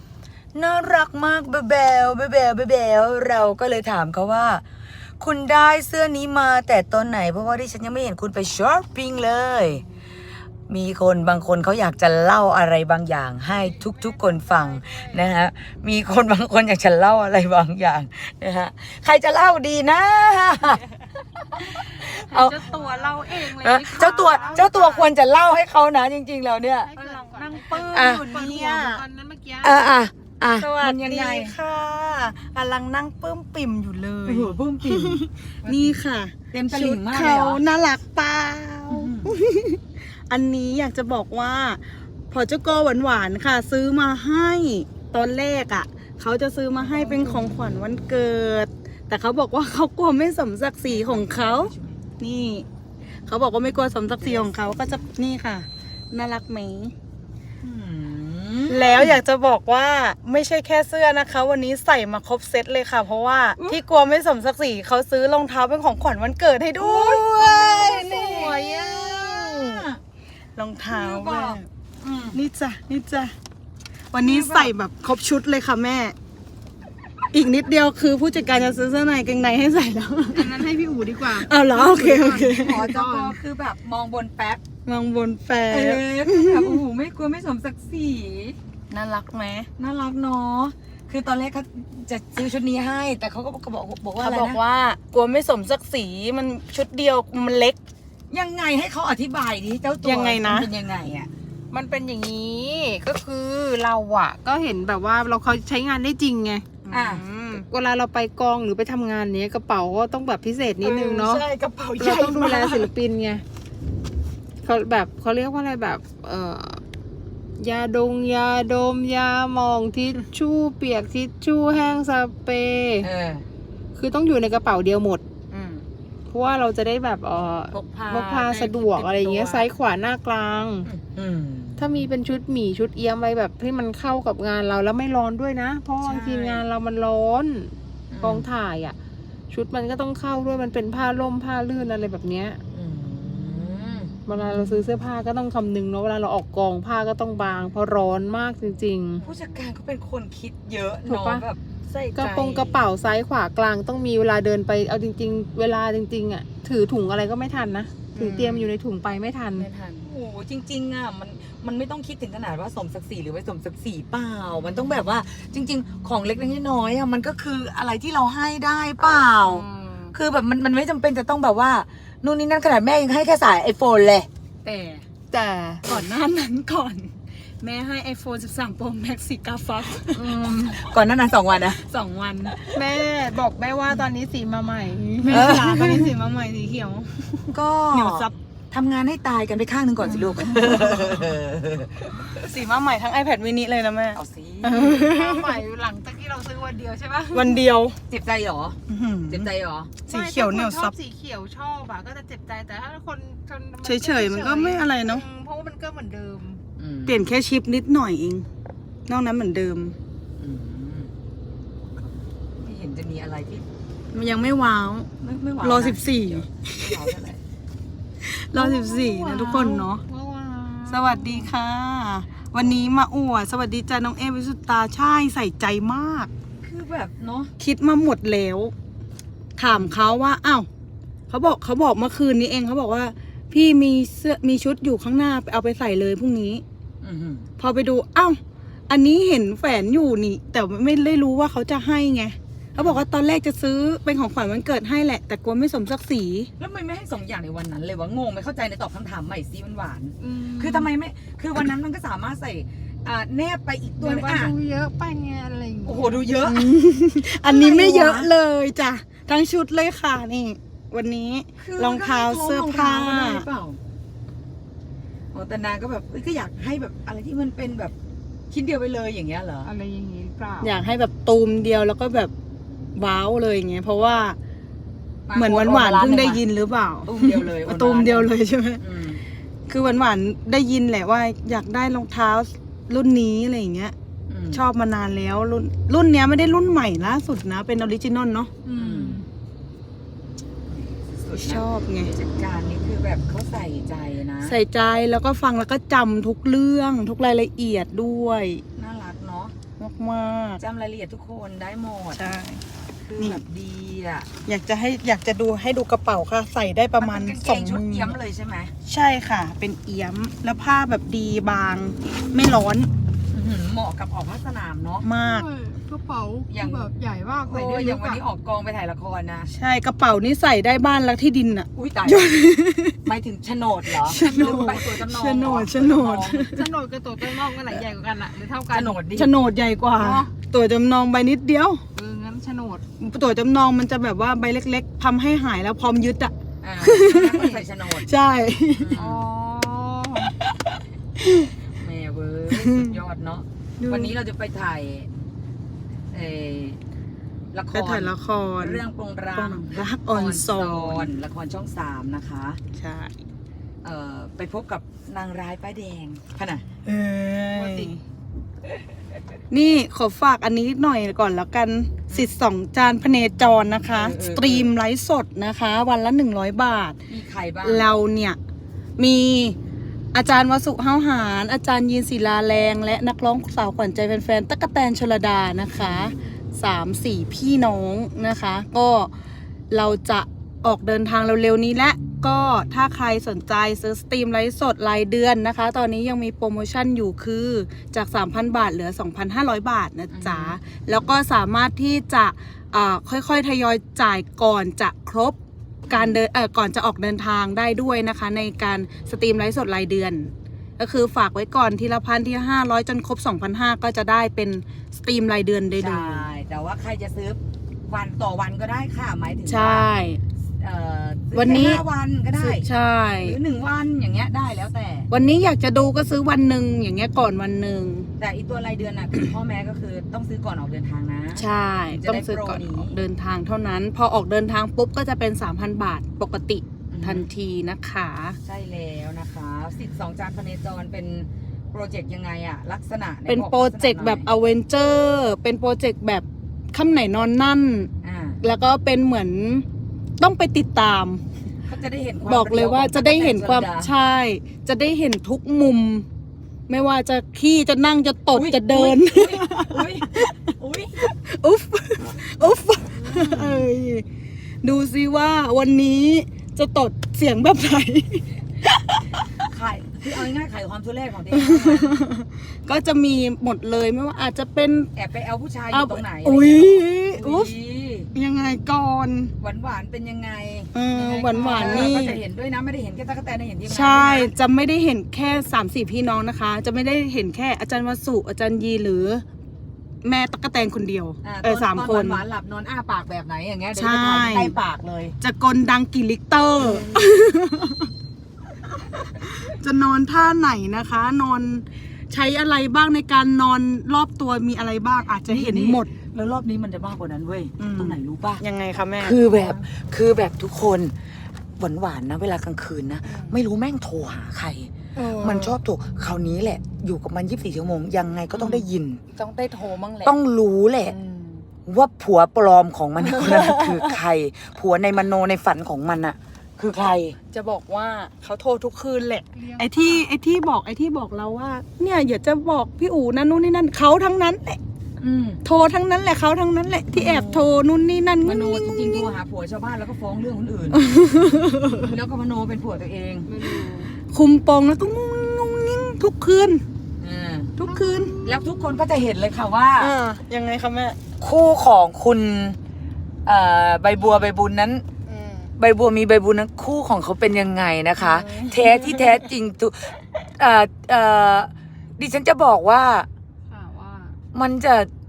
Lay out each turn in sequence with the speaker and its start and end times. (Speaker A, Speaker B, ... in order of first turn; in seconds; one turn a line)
Speaker A: 0.5-4.6
Speaker A: 5.2-9.8
Speaker A: 10.7-20.8
Speaker B: 13.5-15.3
Speaker A: 21.4-22.6
Speaker C: 22.1-24.7
Speaker B: 22.3-25.1
Speaker A: 23.4-26.9
Speaker B: 26.8-29.8
Speaker C: 27.0-29.0
Speaker A: 27.7-28.7
Speaker A: 29.6-31.6
Speaker C: 30.6-52.6
Speaker A: 34.2-37.6
Speaker A: 38.9-39.3
Speaker A: 50.8-52.0
Speaker C: 53.3-56.9
Speaker A: 54.2-55.1
Speaker A: 57.6-59.2
Speaker C: 58.7-69.8
Speaker A: 66.8-70.0
Speaker C: 70.5-71.7
Speaker A: 70.9-72.4
Speaker C: 72.3-73.3
Speaker C: 74.1-76.2
Speaker A: 74.2-74.7
Speaker C: 77.3-80.7
Speaker B: 80.3-83.4
Speaker C: 81.3-83.0
Speaker A: 81.9-84.6
Speaker C: 84.8-86.8
Speaker A: 85.7-88.6
Speaker C: 88.9-89.7
Speaker A: 89.8-94.6
Speaker C: 94.2-97.8
Speaker A: 98.3-101.3
Speaker C: 100.0-100.7
Speaker B: 101.7-106.8
Speaker C: 106.8-107.7
Speaker A: 106.9-107.2
Speaker B: 107.7-111.4
Speaker C: 110.8-112.9
Speaker B: 112.0-113.4
Speaker B: 114.6-116.8
Speaker B: 117.6-123.1
Speaker A: 123.0-123.4
Speaker B: 124.0-125.2
Speaker C: 125.5-125.8
Speaker B: 126.3-130.9
Speaker C: 127.7-129.7
Speaker A: 130.8-132.0
Speaker B: 131.8-138.9
Speaker A: 136.0-136.6
Speaker A: 138.1-138.4
Speaker B: 139.5-142.6
Speaker A: 142.7-144.1
Speaker B: 144.2-149.3
Speaker A: 149.2-152.8
Speaker B: 151.1-151.4
Speaker C: 151.9-152.3
Speaker B: 152.1-159.7
Speaker C: 158.2-158.5
Speaker A: 158.2-158.6
Speaker A: 159.5-175.1
Speaker C: 169.4-170.0
Speaker C: 175.3-180.7
Speaker A: 180.1-181.8
Speaker C: 181.8-182.8
Speaker B: 182.7-185.9
Speaker C: 185.0-188.3
Speaker A: 185.3-186.1
Speaker A: 187.5-192.3
Speaker C: 190.4-191.2
Speaker C: 192.3-195.6
Speaker A: 194.1-194.9
Speaker B: 194.7-197.6
Speaker C: 197.3-198.0
Speaker A: 198.1-198.8
Speaker C: 198.9-199.4
Speaker A: 199.3-199.9
Speaker B: 200.1-206.6
Speaker C: 200.1-200.9
Speaker C: 203.8-205.2
Speaker A: 206.8-207.2
Speaker C: 207.1-208.5
Speaker C: 209.1-209.9
Speaker A: 210.4-211.1
Speaker A: 211.9-213.6
Speaker C: 214.1-215.1
Speaker A: 215.2-217.4
Speaker C: 215.6-217.1
Speaker C: 218.2-220.0
Speaker A: 218.6-219.8
Speaker B: 219.5-221.5
Speaker C: 220.9-226.3
Speaker A: 226.6-227.5
Speaker C: 227.6-228.7
Speaker C: 229.6-230.7
Speaker A: 229.7-229.9
Speaker C: 231.3-236.6
Speaker A: 237.0-237.5
Speaker C: 237.6-238.4
Speaker C: 238.9-246.5
Speaker A: 242.8-243.1
Speaker A: 246.6-254.5
Speaker B: 250.2-250.9
Speaker B: 254.0-256.3
Speaker A: 255.8-256.7
Speaker C: 256.4-263.4
Speaker A: 257.3-258.3
Speaker A: 261.6-263.8
Speaker A: 265.3-267.9
Speaker A: 268.5-269.7
Speaker B: 269.6-270.8
Speaker C: 270.6-272.3
Speaker C: 272.9-274.4
Speaker A: 275.3-276.4
Speaker C: 275.3-278.8
Speaker A: 277.0-279.2
Speaker C: 279.7-283.9
Speaker A: 284.3-284.6
Speaker C: 284.5-288.5
Speaker B: 288.6-289.2
Speaker A: 288.7-289.2
Speaker A: 290.7-294.6
Speaker C: 291.3-292.1
Speaker C: 294.4-298.6
Speaker A: 298.7-299.5
Speaker C: 299.8-300.6
Speaker A: 300.6-302.2
Speaker C: 302.1-302.6
Speaker A: 303.0-304.3
Speaker C: 304.4-308.1
Speaker A: 307.0-308.7
Speaker C: 308.8-312.9
Speaker A: 313.3-315.1
Speaker C: 315.0-315.5
Speaker B: 315.2-318.2
Speaker A: 316.5-316.9
Speaker A: 317.4-319.5
Speaker C: 319.5-323.0
Speaker A: 321.7-322.4
Speaker A: 323.0-326.4
Speaker C: 323.9-326.7
Speaker B: 326.4-329.0
Speaker A: 328.7-329.3
Speaker C: 329.1-331.8
Speaker B: 329.9-330.3
Speaker B: 331.9-332.8
Speaker C: 333.0-339.0
Speaker A: 336.6-338.1
Speaker A: 338.8-339.2
Speaker B: 338.9-340.3
Speaker C: 341.2-341.5
Speaker A: 341.7-345.1
Speaker C: 342.5-343.0
Speaker C: 343.8-344.1
Speaker A: 346.1-346.8
Speaker A: 347.5-352.6
Speaker C: 347.7-348.8
Speaker C: 349.3-351.1
Speaker C: 352.7-353.2
Speaker A: 353.8-356.6
Speaker C: 356.8-357.9
Speaker B: 357.5-357.9
Speaker C: 359.5-367.0
Speaker A: 362.1-362.3
Speaker A: 363.8-364.7
Speaker A: 367.1-367.9
Speaker C: 367.6-368.4
Speaker C: 369.0-369.6
Speaker C: 370.1-379.1
Speaker A: 375.8-376.1
Speaker C: 379.7-395.4
Speaker A: 390.1-390.6
Speaker C: 395.9-406.3
Speaker A: 395.9-396.2
Speaker A: 405.8-409.9
Speaker C: 409.5-410.2
Speaker A: 410.6-412.7
Speaker C: 411.3-411.8
Speaker C: 412.4-413.4
Speaker A: 413.2-415.1
Speaker C: 415.1-418.1
Speaker A: 418.2-423.0
Speaker C: 421.3-428.4
Speaker A: 426.9-427.3
Speaker A: 428.4-434.3
Speaker C: 433.2-437.9
Speaker A: 438.0-438.4
Speaker C: 438.4-439.6
Speaker C: 440.2-441.2
Speaker A: 441.6-443.9
Speaker C: 442.2-446.0
Speaker C: 446.7-450.4
Speaker A: 448.3-451.1
Speaker C: 451.0-454.0
Speaker A: 452.9-453.6
Speaker C: 454.6-459.0
Speaker A: 459.4-462.0
Speaker C: 461.3-464.9
Speaker A: 464.9-468.1
Speaker C: 465.7-467.5
Speaker C: 468.1-469.3
Speaker A: 469.4-474.3
Speaker C: 470.7-472.2
Speaker B: 471.3-471.9
Speaker C: 473.7-479.2
Speaker C: 480.0-482.2
Speaker A: 481.2-485.1
Speaker C: 483.7-484.6
Speaker C: 485.2-487.9
Speaker A: 486.6-487.1
Speaker C: 489.1-495.9
Speaker A: 495.3-498.4
Speaker C: 497.6-499.6
Speaker A: 499.0-500.9
Speaker A: 501.6-509.0
Speaker C: 503.0-503.4
Speaker C: 504.9-505.6
Speaker C: 508.3-510.1
Speaker A: 510.0-510.9
Speaker C: 510.9-511.4
Speaker A: 511.6-517.1
Speaker C: 513.0-514.0
Speaker C: 517.3-524.6
Speaker B: 519.3-520.1
Speaker A: 525.0-525.4
Speaker C: 525.4-529.1
Speaker A: 526.9-527.5
Speaker A: 528.2-531.0
Speaker C: 530.7-531.9
Speaker A: 531.6-533.3
Speaker B: 533.2-533.9
Speaker C: 534.1-536.6
Speaker A: 537.0-537.5
Speaker C: 537.6-538.7
Speaker B: 537.6-538.2
Speaker A: 538.2-539.9
Speaker C: 539.8-541.0
Speaker A: 541.2-542.6
Speaker A: 543.2-544.8
Speaker C: 545.1-545.5
Speaker A: 545.6-553.1
Speaker C: 548.0-549.3
Speaker B: 553.5-554.2
Speaker A: 554.3-554.9